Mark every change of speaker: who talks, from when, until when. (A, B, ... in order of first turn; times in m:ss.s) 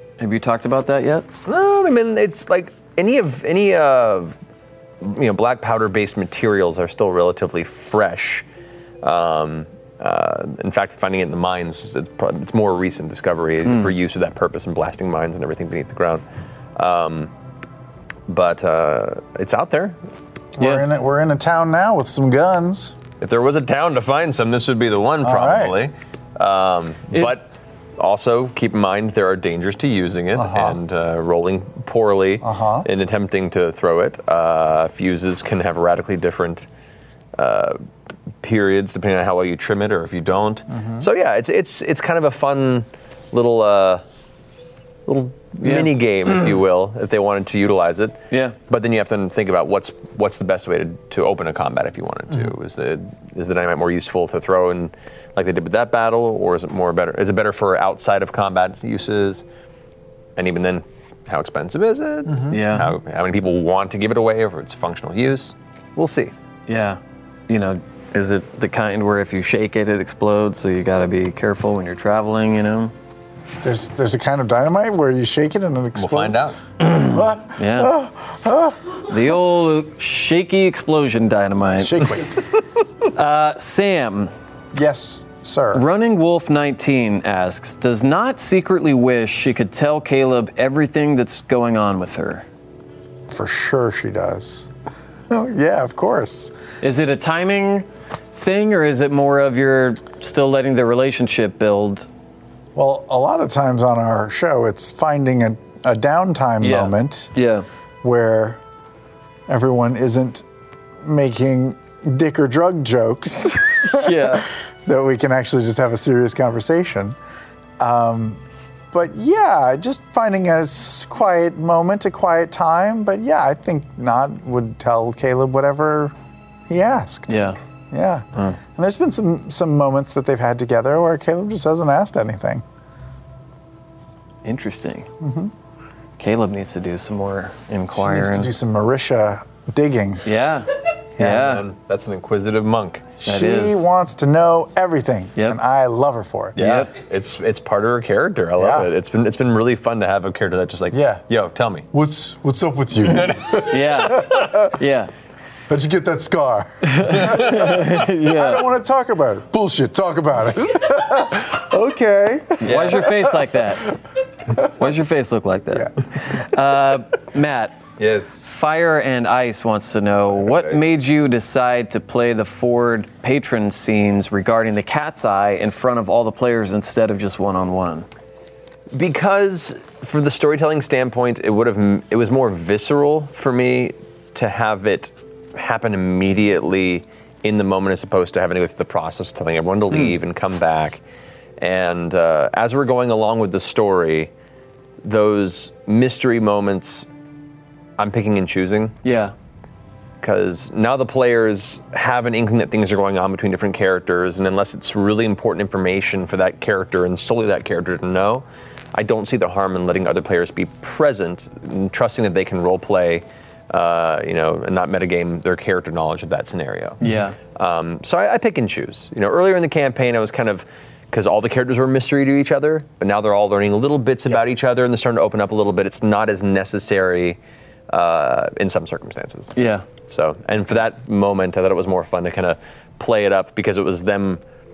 0:00.2-0:01.3 A
0:01.5-0:04.4 B
0:05.0-0:08.4 B
0:09.0-0:16.2 B
0:13.7-0:13.9 A
0:16.8-0:17.3 B
0:18.3-0:20.0 B
0:20.6-0:23.0 C
0:20.6-0:20.8 A
0:23.2-0:36.7 B
0:25.2-0:25.8 C
0:30.3-0:30.8 C
0:32.4-0:32.9 C
0:37.4-0:37.8 B
0:38.4-0:44.0 B
0:40.7-0:41.1 C
0:45.1-0:59.4 B
0:45.6-0:45.9 A
0:48.3-0:48.6 A
1:00.4-1:06.3 B
1:02.3-1:02.6 C
1:02.5-1:03.0 A
1:06.7-1:12.9 A
1:13.6-1:19.0 C
1:16.0-1:16.6 B
1:17.5-1:17.9 A
1:19.1-1:22.2 A
1:21.8-1:22.4 C
1:23.1-1:24.3 A
1:24.7-1:25.8 C
1:25.7-1:32.4 A
1:33.3-1:34.7 C
1:35.3-1:36.5 C
1:36.8-1:42.1 A
1:42.8-1:47.3 C
1:46.6-1:47.6 A
1:48.0-1:48.6 C
1:49.5-1:50.4 C
1:51.0-1:57.2 C
1:53.9-1:54.5 A
1:57.8-1:58.4 C
1:58.9-2:06.1 C
2:06.7-2:12.6 C
2:07.3-2:07.6 A
2:14.4-2:15.1 A
2:15.2-2:15.5 C
2:16.2-2:18.5 A
2:17.9-2:20.2 C
2:20.2-2:21.6 A
2:21.2-2:21.4 C
2:21.2-2:23.1 B
2:23.2-2:26.6 C
2:23.2-2:23.8 A
2:26.6-2:31.9 B
2:26.6-2:26.9 A
2:28.6-2:28.9 C
2:30.9-2:31.2 C
2:31.9-2:34.7 C
2:33.1-2:33.6 B
2:33.6-2:35.1 A
2:35.7-2:43.3 C
2:36.8-2:38.7 A
2:42.6-2:43.9 A
2:42.6-2:43.2 B
2:44.6-2:47.8 A
2:48.0-2:48.3 B
2:48.4-2:58.1 A
2:50.3-2:50.9 B
2:58.9-3:11.0 B
3:11.6-3:14.3 B
3:15.0-3:17.1 B
3:18.0-3:19.0 B
3:19.0-3:19.3 A
3:20.2-3:37.0 B
3:37.0-3:37.4 A
3:37.6-3:47.4 B
3:47.9-3:54.4 B
3:49.6-3:49.9 A